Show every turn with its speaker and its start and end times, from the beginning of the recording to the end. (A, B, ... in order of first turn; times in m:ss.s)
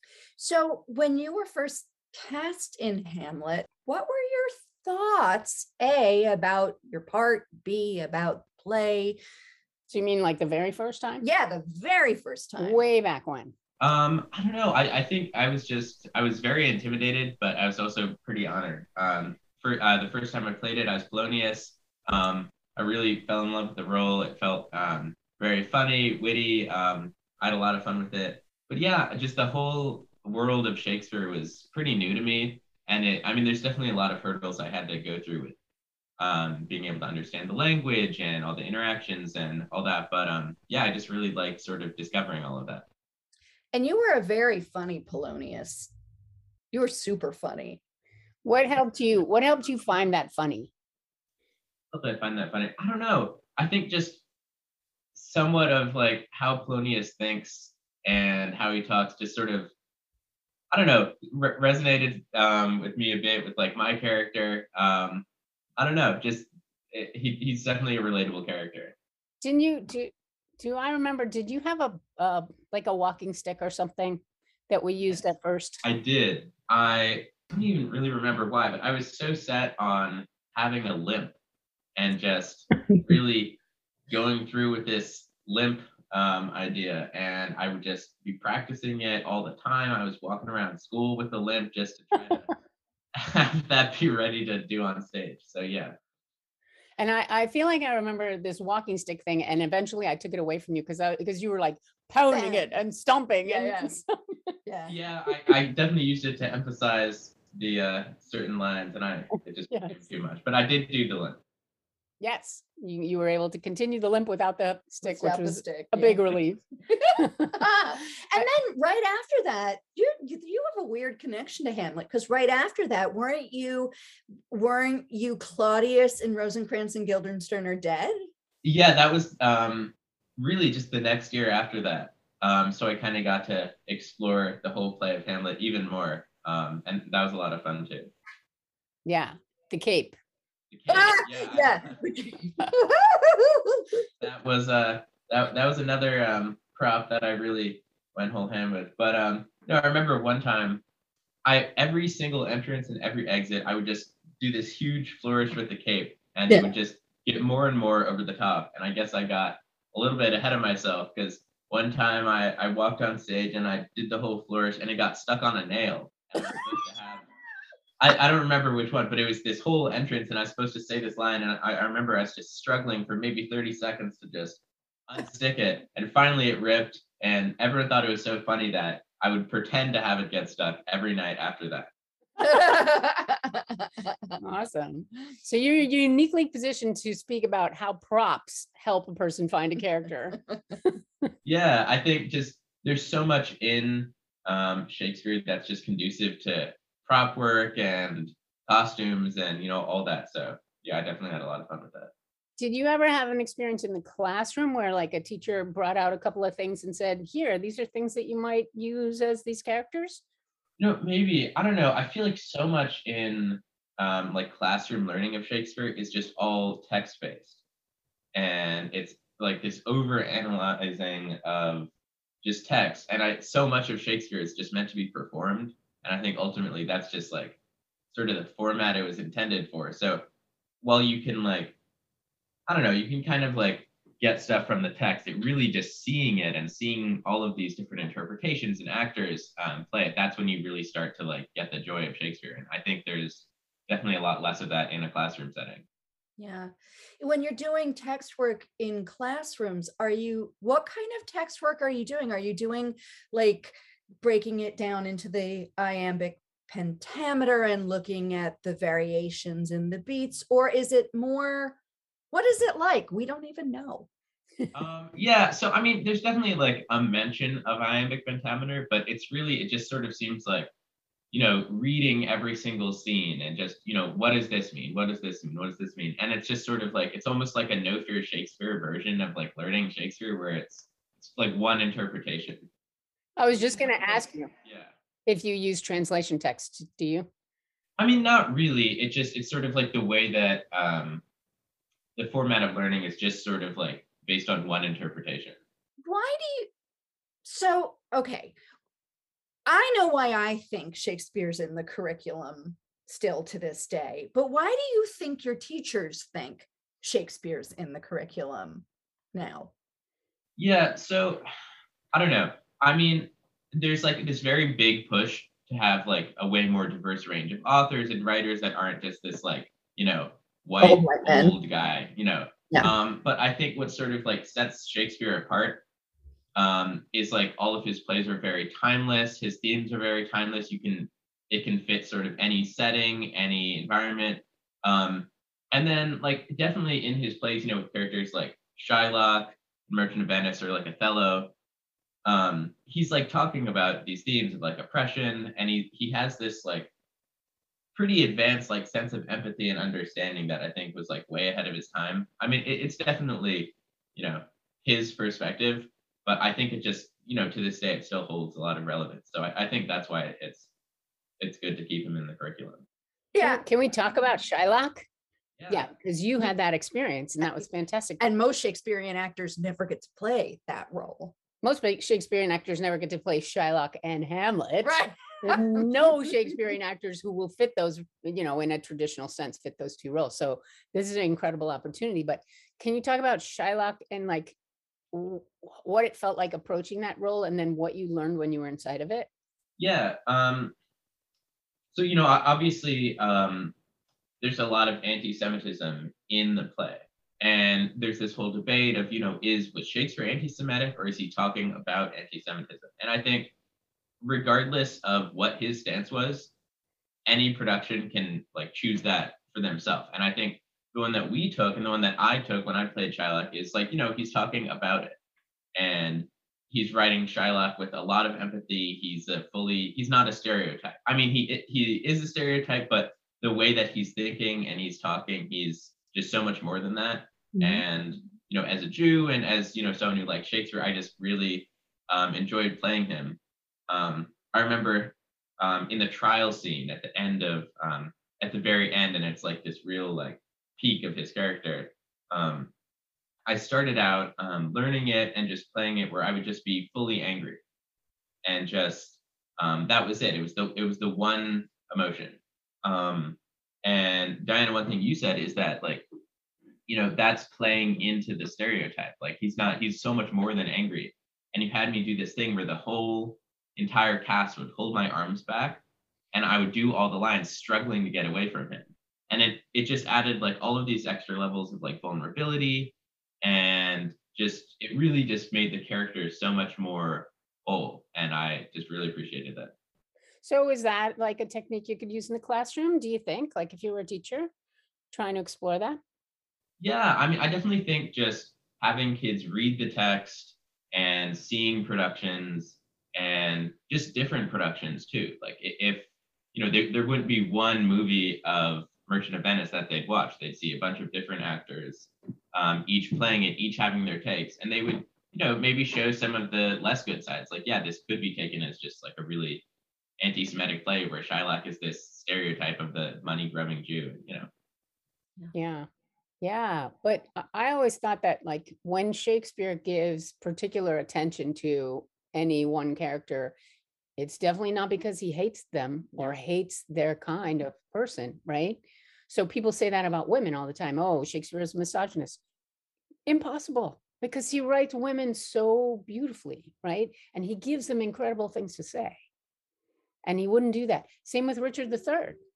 0:00.4-0:09.2 A
0:09.9-0:11.2 B
0:11.2-0:12.8 A
0:12.6-0:13.5 B
0:13.8-0:35.6 C
0:36.2-0:42.8 C
0:43.7-0:45.9 A
0:46.7-0:47.8 A
0:48.4-0:50.7 B
0:51.9-0:54.2 C
0:55.1-0:59.7 C
1:00.7-1:05.2 C
1:05.8-1:08.9 C
1:09.4-1:15.8 B
1:15.8-1:21.3 C
1:22.0-1:23.6 C
1:24.1-1:32.5 C
1:33.1-1:36.0 C
1:37.0-1:44.0 B
1:42.2-1:42.7 A
1:43.4-1:44.0 A
1:44.6-1:44.9 A
1:44.9-1:51.4 C
1:52.2-1:56.6 B
1:55.0-1:56.4 A
1:56.9-2:03.9 A
1:57.2-1:57.5 B
2:04.5-2:08.3 A
2:08.6-2:18.1 C
2:19.0-2:20.2 B
2:20.7-2:22.0 C
2:20.9-2:24.0 A
2:24.2-2:30.8 C
2:31.4-2:47.3 C
2:48.0-3:01.9 C
3:02.4-3:04.4 A
3:04.4-3:10.4 B
3:11.4-3:22.1 C
3:22.6-3:30.2 B
3:30.8-3:37.6 C
3:38.3-3:41.9 C
3:42.4-3:47.6 C
3:48.1-3:50.3 C
3:50.8-3:51.7 C
3:52.7-4:05.8 C
4:06.4-4:21.8 A
4:22.3-4:24.1 A
4:24.7-4:30.7 C
4:31.3-4:42.7 C
4:43.4-4:44.5 B
4:43.7-4:44.9 C
4:45.2-4:47.3 B
4:48.0-4:51.2 C
4:52.2-4:55.6 C
4:56.0-4:56.7 A
4:57.4-4:58.6 A
4:59.6-5:09.7 A
5:10.6-5:11.5 C
5:12.1-5:25.8 C
5:20.8-5:21.5 A
5:26.6-5:41.5 C
5:42.2-5:46.9 C
5:47.9-6:00.7 C
6:01.4-6:02.8 C
6:03.3-6:03.6 A
6:03.4-6:05.0 B
6:05.6-6:05.9 C
6:05.7-6:08.2 B
6:08.2-6:11.3 A
6:11.6-6:24.6 B
6:14.8-6:16.3 A
6:25.1-6:29.3 B
6:29.8-6:30.7 C
6:31.9-6:33.7 C
6:34.4-6:43.5 C
6:44.2-6:46.5 C
6:47.2-6:55.1 C
6:55.7-7:22.7 C
7:07.6-7:07.8 A
7:23.4-7:27.6 C
7:28.4-7:36.0 C
7:36.9-7:45.8 C
7:46.3-7:59.7 C
8:00.4-8:04.5 B
8:05.1-8:06.0 B
8:06.8-8:29.6 C
8:30.2-8:34.5 C
8:35.5-8:35.9 B
8:36.4-8:43.5 B
8:44.2-8:52.4 B
8:53.3-8:59.2 B
9:00.2-9:02.4 B